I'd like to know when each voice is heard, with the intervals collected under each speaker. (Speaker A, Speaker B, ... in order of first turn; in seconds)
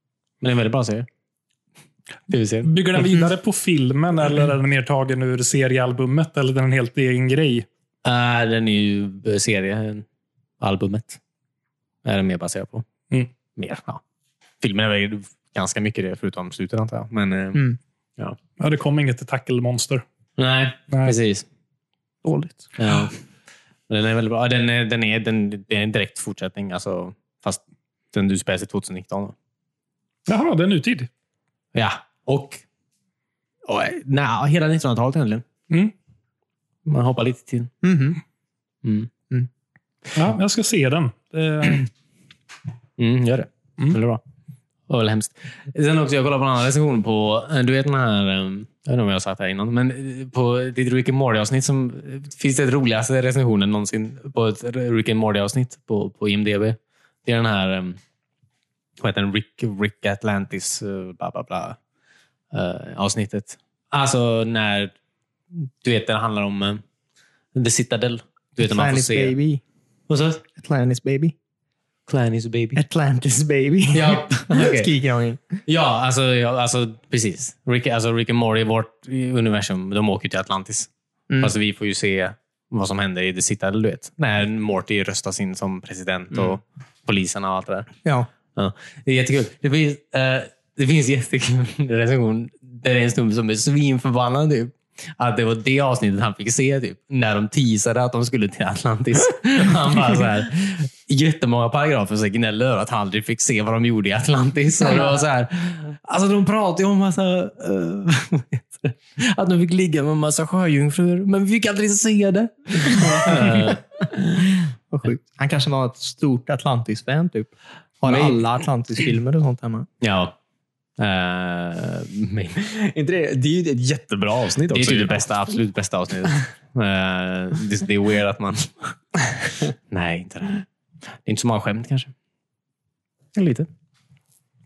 Speaker A: 0.4-1.1, 2.3-2.7, 8.0-10.1, 10.6-11.2, 12.0-12.8, 13.6-14.0, 14.6-18.4, 20.4-21.5, 22.8-23.1, 23.9-27.6, 28.1-29.4, 31.7-32.6, 33.7-35.5, 36.9-37.7, 38.8-39.1, 43.0-44.2, 44.9-58.0, 59.0-61.8, 62.5-64.9, 65.6-66.8, 67.5-69.3, 70.1-70.4, 72.1-72.8, 73.9-74.9, 75.7-87.9, 88.5-113.8, 118.1-118.4, 120.0-120.4, 121.0-122.7, 124.7-128.9, 129.9-130.7, 131.2-132.1, 133.3-133.7
Speaker B: 2.6-7.7, 18.6-20.0, 20.9-21.1, 30.3-31.1, 40.1-41.9
Speaker C: 22.2-22.7, 37.8-38.2, 68.6-69.6, 70.5-71.3, 72.8-75.6, 114.9-119.9
Speaker D: 122.6-125.3